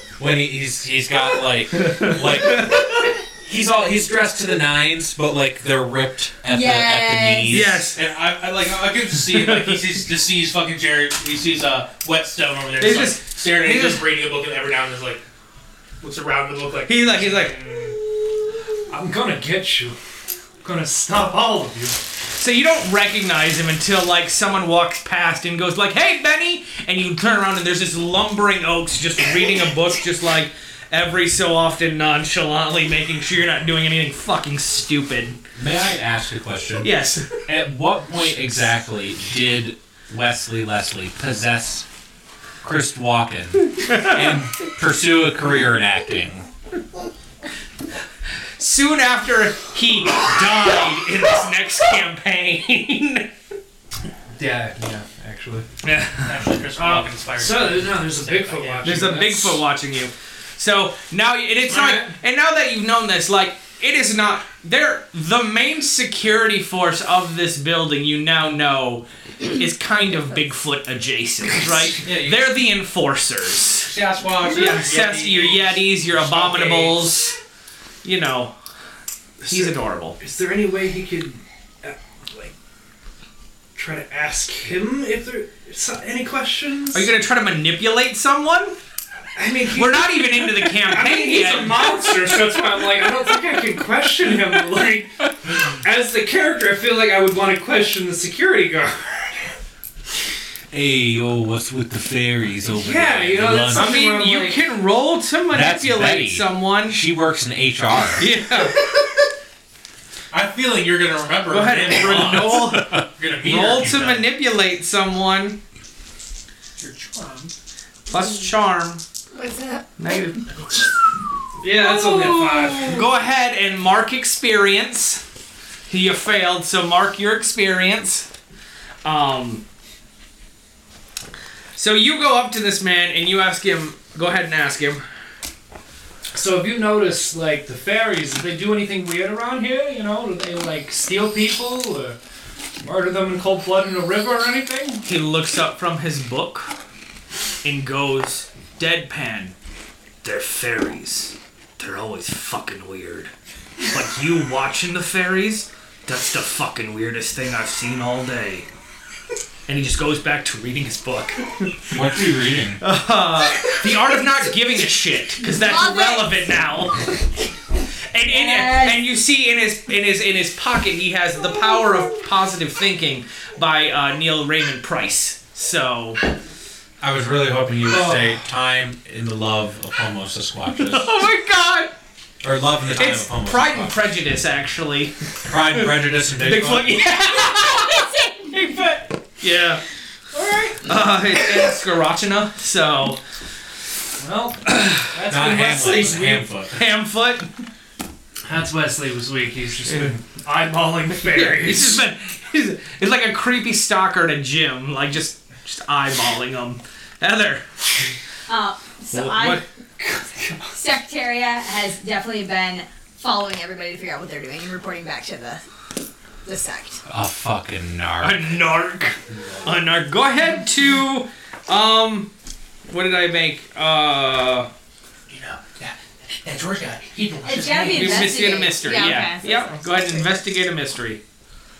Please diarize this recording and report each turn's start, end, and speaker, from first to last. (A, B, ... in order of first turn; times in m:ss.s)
0:00.2-0:07.9 A
0:01.8-0:03.0 B
0:06.5-0:07.6 C
0:07.5-0:08.0 B
0:07.9-0:15.2 D
0:09.3-0:09.8 B
0:12.8-0:14.1 B
0:16.0-0:17.9 D
0:16.9-0:17.6 B
0:18.9-0:20.0 E
0:20.6-0:22.0 E
0:22.4-0:35.4 B
0:35.6-0:41.9 A
0:36.8-0:37.3 B
0:42.6-0:46.5 A
0:43.9-0:44.2 B
0:48.6-0:53.3 B
0:54.4-0:55.7 E
0:55.8-0:56.3 B
0:56.2-0:59.1 D
0:56.8-0:59.6 E
0:58.8-1:17.4 B
1:01.7-1:02.1 E
1:10.0-1:10.4 C
1:12.0-1:12.5 D
1:13.8-1:17.2 D
1:18.0-1:18.5 B
1:19.4-1:20.2 B
1:19.4-1:22.5 E
1:23.8-1:27.1 E
1:26.9-1:28.8 B
1:29.4-1:39.5 E
1:29.7-1:32.4 B
1:40.7-1:43.9 A
1:42.7-1:44.6 E
1:43.7-1:47.0 B
1:45.5-1:48.3 A
1:48.2-1:48.8 B
1:50.3-1:54.3 D
1:51.5-1:55.6 B
1:52.7-1:53.0 A
1:56.9-1:57.5 E
1:58.1-1:59.0 B
1:59.3-1:59.9 C
2:00.0-2:00.4 B
2:01.6-2:03.1 E
2:01.9-2:05.2 B
2:02.1-2:03.0 C
2:05.9-2:08.3 B
2:09.0-2:09.6 B
2:11.8-2:15.0 B
2:16.3-2:22.2 E
2:22.8-2:25.0 E
2:25.0-2:26.7 B
2:27.6-2:29.6 B
2:30.2-2:33.3 B
2:33.9-2:38.7 B
2:39.7-2:41.7 B
2:41.9-2:42.8 A
2:42.8-2:47.1 B
2:45.5-2:46.6 C
2:48.1-2:56.2 B
2:48.3-2:49.0 C
2:57.0-3:01.2 A
2:57.9-2:58.4 E
3:00.7-3:01.9 B
3:02.4-3:04.0 A
3:03.0-3:08.0 B
3:05.4-3:06.9 A
3:07.1-3:09.2 C
3:09.4-3:09.8 B
3:10.3-3:10.9 E
3:10.9-3:13.2 B
3:14.2-3:16.5 E
3:14.7-3:17.5 B
3:15.3-3:16.8 A
3:18.5-3:22.1 E
3:19.9-3:20.2 B
3:21.3-3:27.8 B
3:28.5-3:29.6 C
3:29.1-3:29.6 B
3:30.0-3:30.8 E
3:30.8-3:35.6 C
3:36.4-3:37.0 C
3:37.1-3:38.6 A
3:38.2-3:42.3 B
3:42.9-3:44.7 B
3:45.3-3:48.4 D
3:47.5-3:50.5 C
3:47.9-3:51.2 B